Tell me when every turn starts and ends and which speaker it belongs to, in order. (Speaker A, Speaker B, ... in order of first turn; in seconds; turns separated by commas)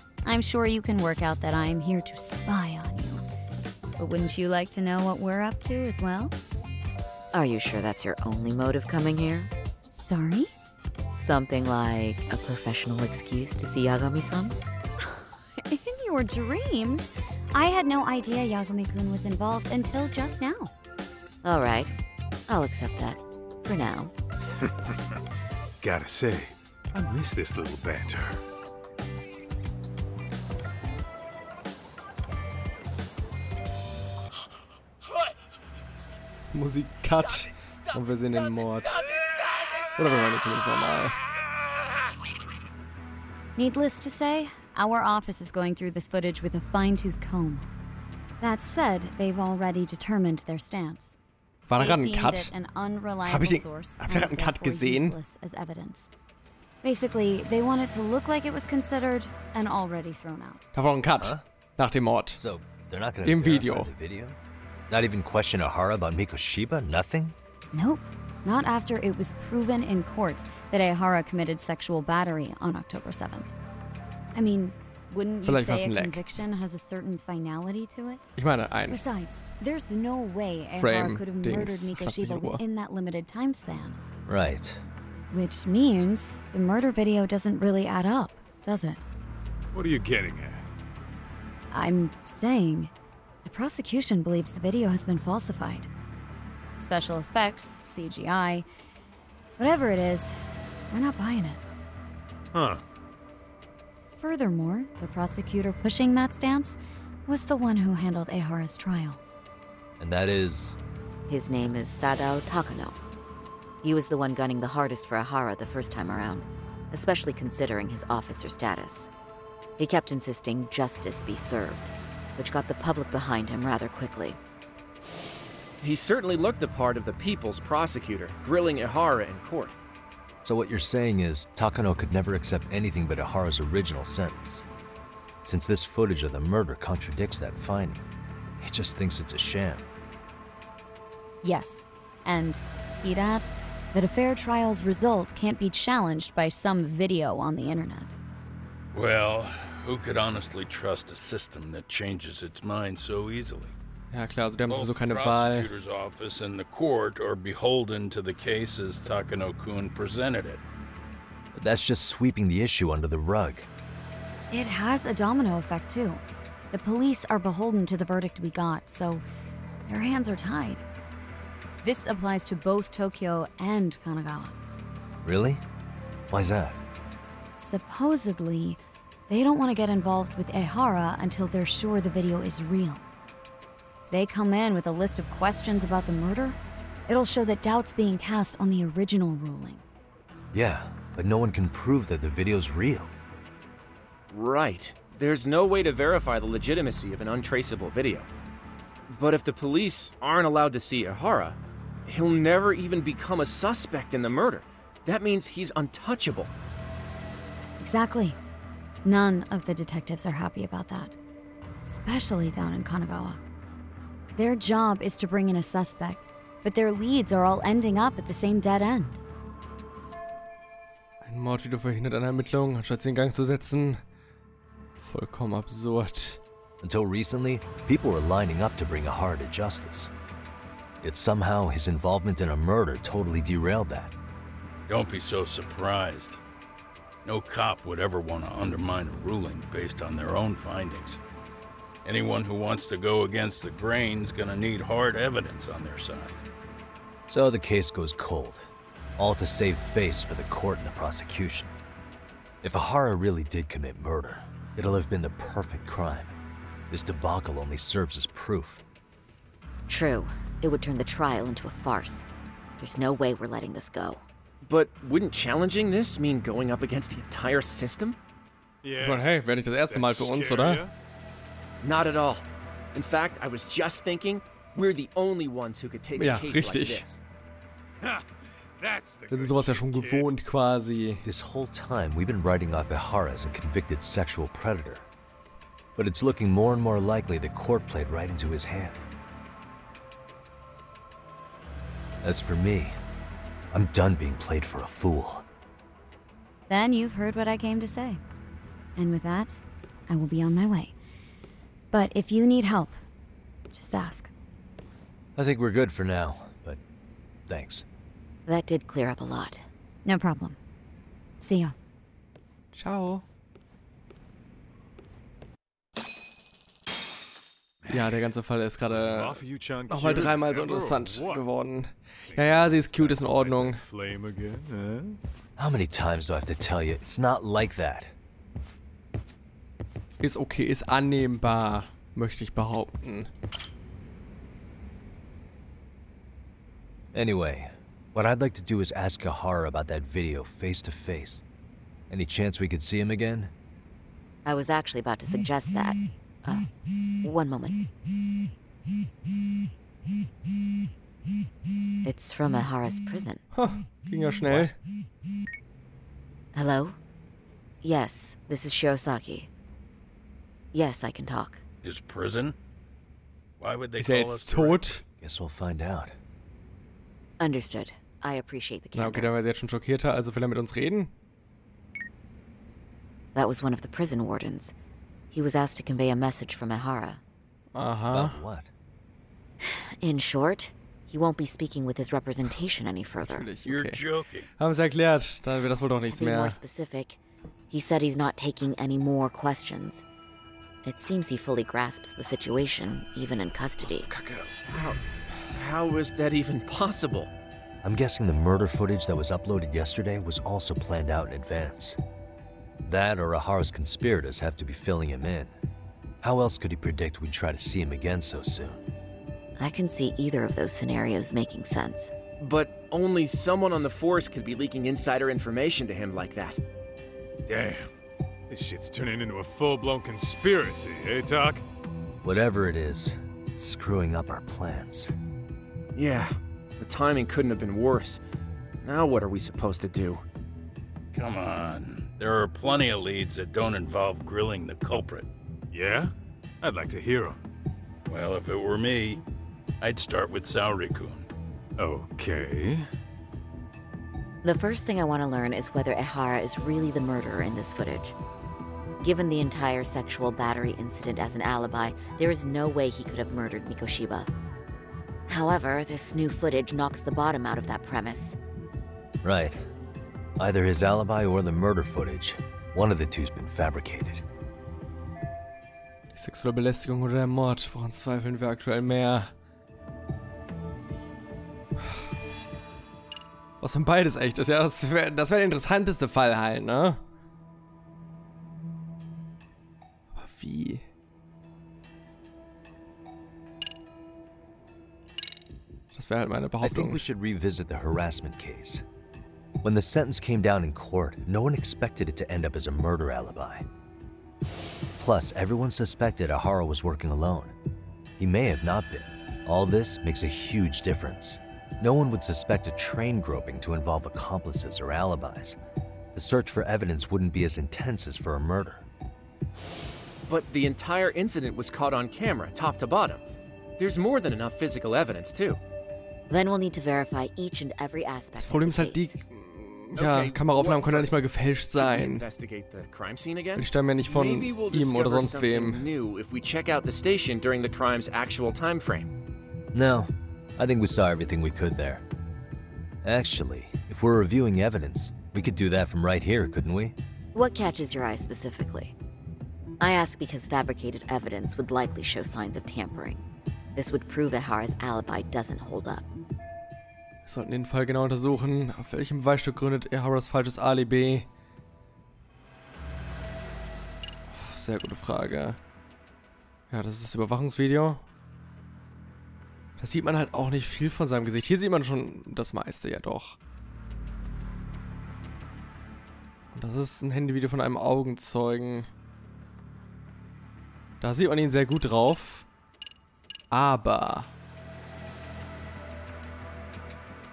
Speaker A: 0.2-3.2, Speaker A: 4.0-6.3, Speaker B: 7.3-9.5, Speaker A: 9.9-10.5, Speaker B: 11.1-14.6, Speaker A: 15.0-20.7, Speaker B: 21.4-21.9, Speaker B: 22.5-24.1, Speaker C: 25.8-28.4, Speaker D: 36.5-39.0, Speaker D: 40.0-41.2, Speaker A: 43.6-47.7, Speaker A: 48.4-51.2, Speaker D: 51.7-52.5, Speaker A: 51.8-56.1, Speaker D: 53.2-55.2, Speaker A: 56.8-60.7, Speaker D: 60.7-62.4, Speaker E: 61.2-61.4, Speaker E: 62.4-64.4, Speaker D: 63.2-63.9, Speaker E: 64.9-67.3, Speaker A: 67.7-73.5, Speaker A: 74.3-78.3, Speaker D: 75.4-76.2, Speaker D: 78.4-79.0, Speaker A: 78.9-84.0, Speaker D: 80.7-82.6, Speaker E: 84.3-84.8, Speaker A: 85.3-89.0, Speaker C: 89.7-90.7, Speaker A: 91.7-92.9, Speaker A: 93.4-95.9, Speaker A: 96.8-98.7, Speaker A: 99.6-100.4, Speaker A: 100.9-101.6, Speaker C: 102.5-102.8, Speaker A: 104.1-109.2, Speaker E: 110.0-110.8, Speaker B: 111.3-113.0, Speaker B: 113.8-119.1, Speaker B: 119.8-124.4, Speaker F: 125.8-129.8, Speaker E: 130.4-134.7, Speaker E: 135.4-138.1, Speaker E: 138.6-139.9, Speaker A: 141.4-148.2, Speaker G: 148.9-153.7, Speaker D: 154.1-155.7, Speaker G: 154.7-160.6, Speaker C: 154.9-155.7, Speaker E: 161.5-163.7, Speaker A: 164.5-169.2, Speaker A: 169.9-170.8, Speaker A: 171.8-174.6, Speaker E: 175.2-175.6, Speaker E: 176.3-176.8, Speaker A: 177.6-183.0, Speaker A: 184.1-189.8, Speaker E: 190.5-193.1, Speaker F: 194.3-198.3, Speaker F: 199.1-206.5, Speaker A: 207.8-208.4, Speaker A: 209.0-211.2, Speaker A: 211.8-213.4, Speaker A: 214.4-219.2, Speaker D: 221.2-224.0, Speaker D: 225.0-226.4, Speaker E: 226.8-230.1, Speaker E: 231.0-234.1, Speaker G: 234.9-236.4, Speaker G: 237.2-241.2, Speaker G: 242.1-246.4, Speaker E: 247.3-251.7, Speaker E: 252.6-256.4, Speaker E: 256.9-258.8, Speaker B: 259.9-262.2, Speaker B: 262.8-264.2, Speaker F: 264.6-268.2, Speaker C: 268.8-270.9, Speaker D: 269.0-270.8, Speaker F: 271.8-277.2, Speaker D: 276.1-277.1, Speaker C: 278.0-280.3, Speaker D: 279.3-281.3, Speaker E: 281.2-285.1, Speaker E: 286.0-289.0, Speaker E: 292.2-293.0, Speaker E: 293.7-295.4, Speaker A: 296.7-298.2, Speaker A: 299.0-300.9, Speaker A: 301.9-303.0, Speaker A: 303.7-304.3, Speaker E: 305.4-306.8, Speaker E: 307.5-307.9, Speaker B: 308.5-309.7, Speaker A: 310.1-310.6, Speaker A: 311.4-311.7, Speaker D: 312.7-313.3, Speaker C: 317.8-318.2, Speaker D: 317.9-323.8, Speaker C: 318.9-321.4, Speaker C: 322.3-325.2, Speaker E: 325.6-328.1, Speaker D: 330.2-333.3, Speaker E: 337.1-341.4, Speaker E: 342.1-343.5, Speaker B: 344.4-346.7, Speaker B: 347.2-347.9, Speaker B: 352.1-353.4, Speaker D: 353.5-354.8, Speaker C: 354.5-354.7, Speaker B: 356.5-357.0, Speaker B: 357.8-359.5, Speaker B: 360.7-361.6, Speaker G: 361.8-362.6, Speaker G: 363.6-364.9, Speaker D: 364.0-365.0, Speaker C: 364.1-365.0, Speaker E: 365.2-366.2, Speaker B: 367.4-369.3, Speaker D: 368.9-371.1, Speaker B: 373.4-374.7, Speaker B: 375.3-377.2, Speaker D: 377.8-378.4, Speaker E: 378.1-378.7, Speaker B: 379.6-383.5, Speaker D: 383.2-384.1, Speaker G: 383.7-384.5, Speaker C: 383.9-384.3, Speaker D: 384.6-386.6, Speaker B: 386.0-387.2, Speaker B: 387.7-390.0, Speaker B: 390.8-394.1, Speaker F: 393.8-397.3, Speaker E: 397.8-402.0, Speaker E: 402.8-405.5, Speaker E: 406.2-408.8, Speaker B: 409.6-412.1, Speaker F: 412.4-416.6, Speaker C: 417.5-417.9, Speaker C: 418.5-421.6, Speaker E: 422.2-425.1, Speaker F: 425.9-428.2, Speaker F: 428.8-430.2, Speaker G: 431.1-435.3, Speaker C: 435.7-437.4, Speaker G: 438.1-439.2, Speaker G: 439.8-441.3, Speaker C: 441.8-442.9, Speaker B: 444.4-448.1, Speaker B: 449.0-454.3, Speaker B: 455.3-458.4, Speaker E: 459.2-459.6, Speaker E: 460.4-464.2, Speaker D: 466.1-469.3, Speaker D: 473.6-477.0, Speaker D: 480.1-480.9, Speaker D: 485.9-487.0, Speaker E: 486.6-488.8, Speaker E: 489.6-493.7, Speaker E: 495.0-497.5, Speaker E: 498.2-505.6, Speaker E: 506.1-508.9, Speaker F: 510.3-513.2, Speaker F: 513.8-515.6, Speaker B: 516.3-519.1, Speaker D: 518.4-522.3, Speaker F: 519.9-529.1, Speaker D: 523.6-525.8, Speaker E: 529.7-532.0, Speaker E: 533.0-537.0, Speaker B: 537.3-539.0, Speaker B: 539.8-543.2, Speaker B: 543.8-546.1, Speaker D: 547.2-551.3, Speaker D: 554.3-555.6, Speaker D: 556.7-558.0, Speaker D: 559.8-563.4, Speaker D: 566.5-568.9, Speaker D: 571.0-572.5, Speaker D: 573.5-574.3